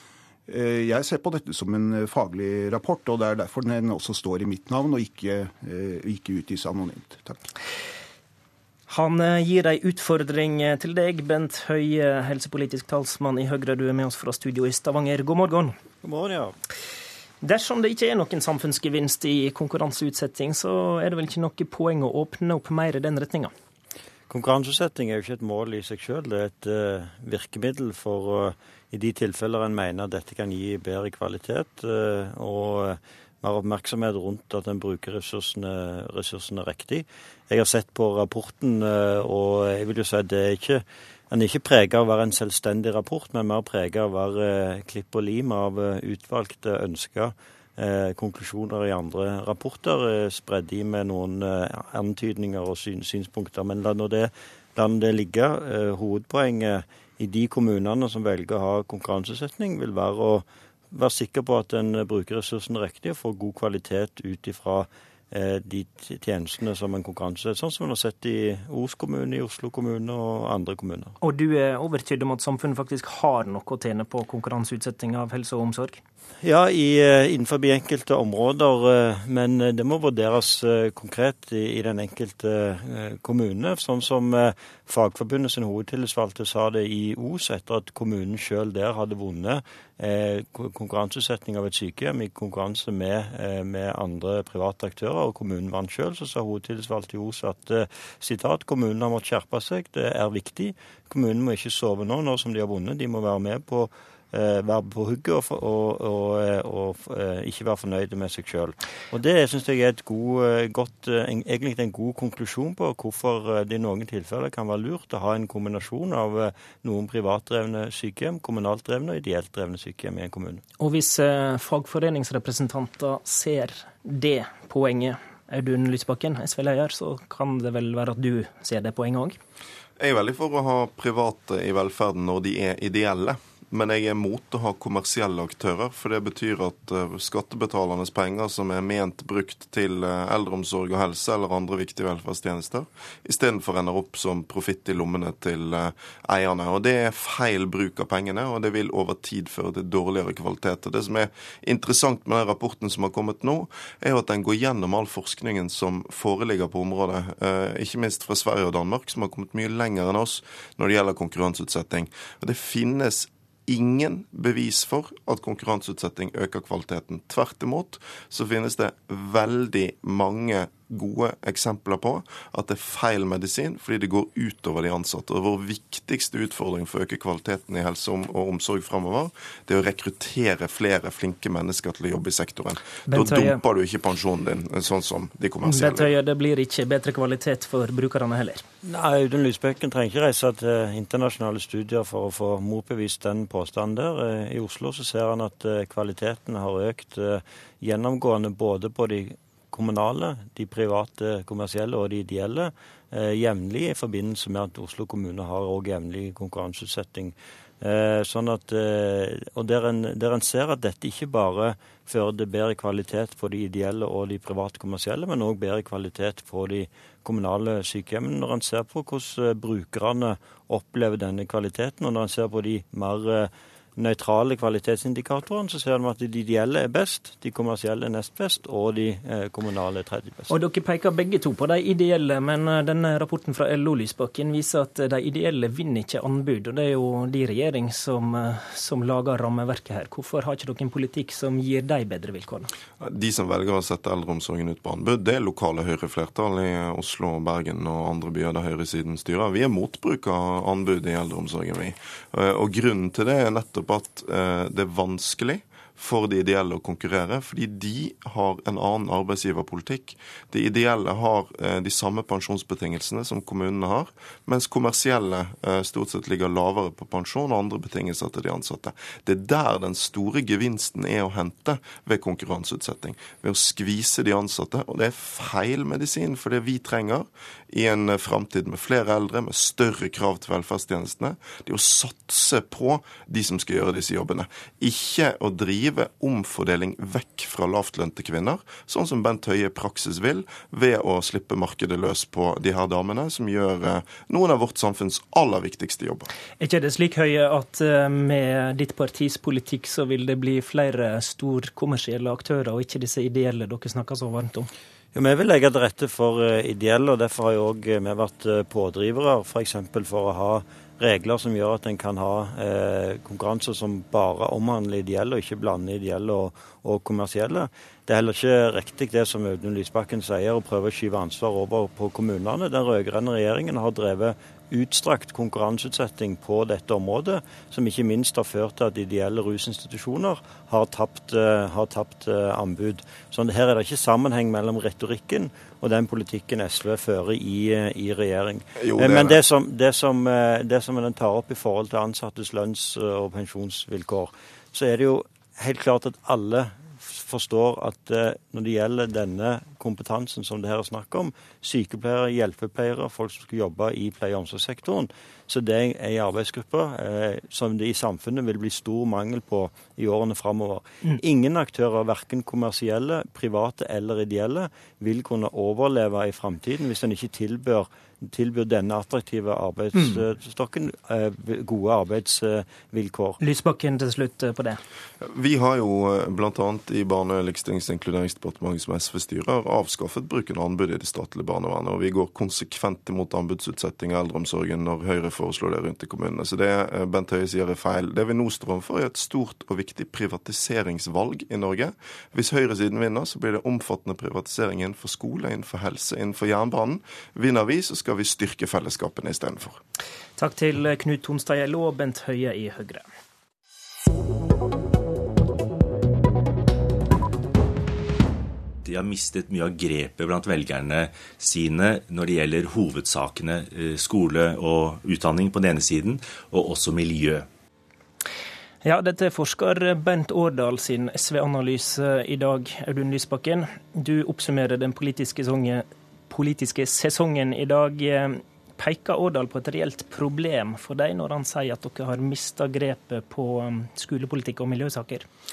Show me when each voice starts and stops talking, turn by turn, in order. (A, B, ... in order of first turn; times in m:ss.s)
0:00.5-0:07.5 A
0:08.9-0:15.7 B
0:16.0-0:16.5 C
0:17.4-0:23.5 B
0:24.3-1:11.2 C
1:11.2-1:16.0 B
1:16.4-2:00.6 C
2:00.8-2:09.4 B
2:10.0-3:06.1 D
3:03.0-3:03.6 B
3:05.6-3:08.6 B
3:08.8-3:50.5 C
3:50.5-4:02.7 B
4:03.0-4:56.3 D
4:56.6-5:04.7 B
5:05.1-6:13.4 C
5:38.8-5:39.4 D
6:13.4-6:14.8 B
6:15.2-6:39.8 D
6:40.4-6:43.0 B
6:48.8-6:57.5 E
6:58.8-7:15.2 B